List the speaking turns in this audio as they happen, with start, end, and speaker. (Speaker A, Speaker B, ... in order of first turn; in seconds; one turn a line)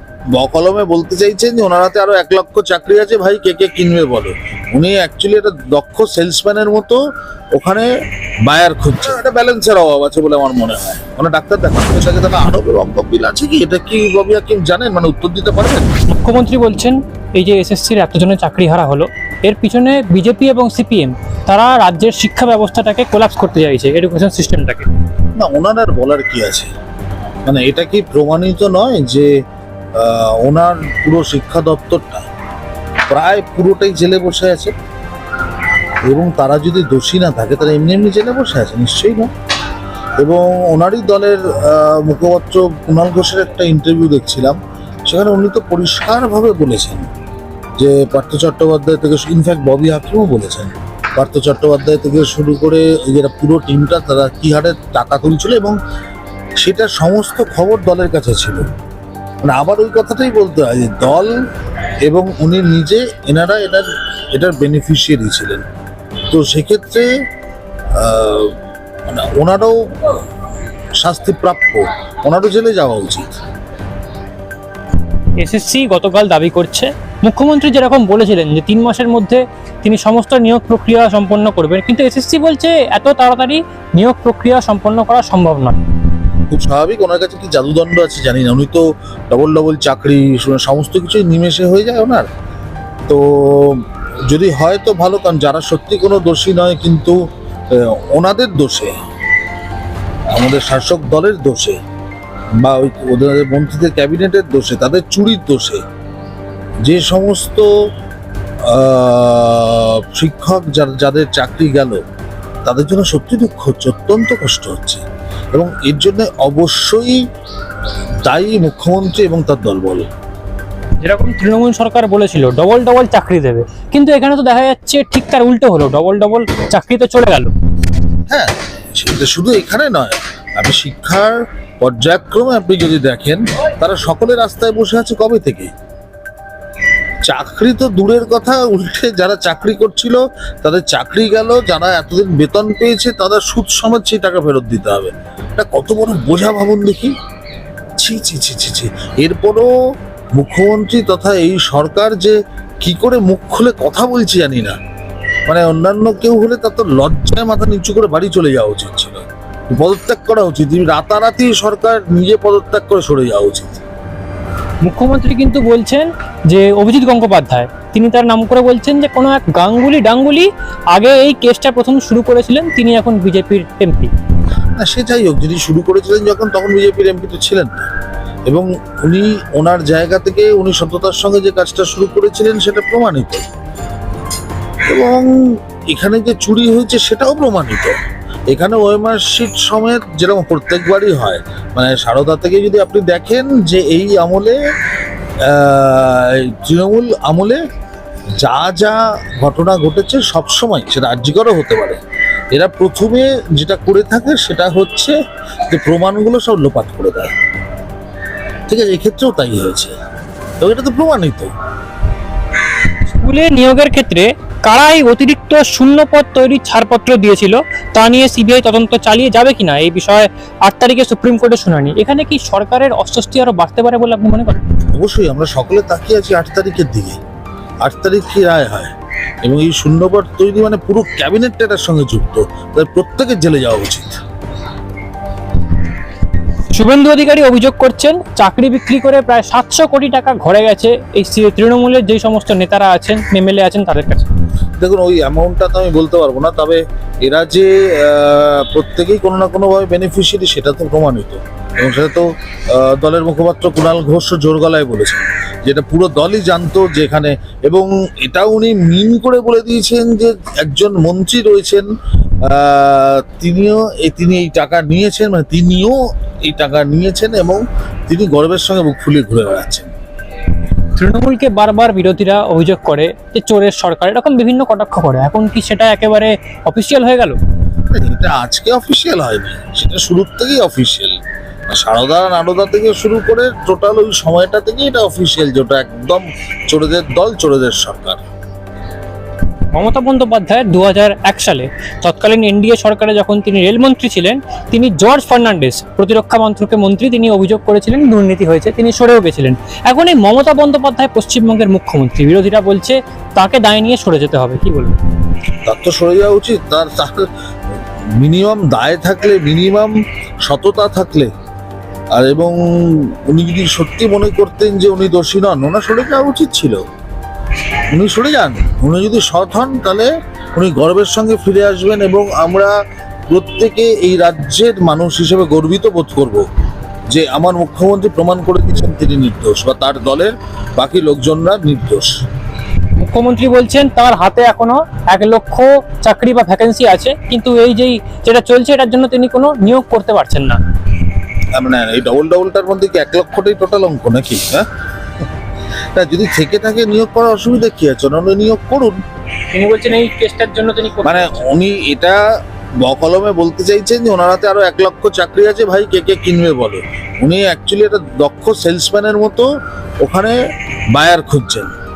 Speaker A: 0.3-7.0
Speaker A: 7.5-7.9
Speaker A: 8.4-15.9
Speaker B: 16.1-24.9
Speaker A: 25.3-26.7
Speaker A: 27.4-29.3
Speaker A: 29.9-32.3
Speaker A: 33.1-34.7
Speaker A: 36.0-39.3
Speaker A: 40.2-47.1
Speaker A: 47.8-55.8
Speaker A: 56.6-58.7
Speaker A: 59.4-61.3
Speaker A: 62.0-65.6
Speaker A: 66.3-67.1
Speaker A: 67.9-68.5
Speaker A: 69.1-70.2
Speaker A: 71.0-73.3
Speaker B: 75.4-85.8
Speaker A: 86.5-92.3
Speaker A: 93.1-97.2
Speaker A: 97.7-99.0
Speaker A: 100.3-101.8
Speaker A: 102.6-105.8
Speaker A: 106.8-107.7
Speaker A: 108.6-112.0
Speaker A: 112.7-117.2
Speaker A: 118.2-120.1
Speaker B: 121.0-127.5
Speaker A: 128.3-135.7
Speaker A: 137.2-147.1
Speaker A: 148.0-149.7
Speaker A: 150.3-154.8
Speaker A: 155.4-163.8
Speaker B: 164.8-174.1
Speaker A: 174.7-177.9
Speaker A: 178.5-183.5
Speaker A: 184.9-188.0
Speaker A: 188.5-194.6
Speaker A: 195.4-197.6
Speaker A: 198.4-202.0
Speaker A: 202.5-205.1
Speaker A: 205.7-207.3
Speaker A: 208.7-209.9
Speaker A: 210.6-211.5
Speaker B: 213.1-224.7
Speaker A: 224.9-227.2
Speaker A: 227.8-228.9
Speaker A: 229.4-234.2
Speaker B: 236.7-244.3
Speaker A: 244.8-261.9
Speaker A: 262.4-269.9
Speaker B: 270.9-277.4
Speaker A: 277.9-288.2
Speaker B: 289.7-305.0
Speaker A: 305.6-307.3
Speaker A: 308.1-311.3
Speaker A: 312.1-316.8
Speaker A: 317.9-322.7
Speaker A: 323.3-326.4
Speaker A: 327.1-332.2
Speaker B: 333.0-340.6
Speaker A: 341.5-344.6
Speaker A: 345.9-349.0
Speaker B: 349.5-351.4
Speaker A: 351.0-352.2
Speaker A: 352.8-359.5
Speaker A: 360.0-360.4
Speaker A: 360.9-361.7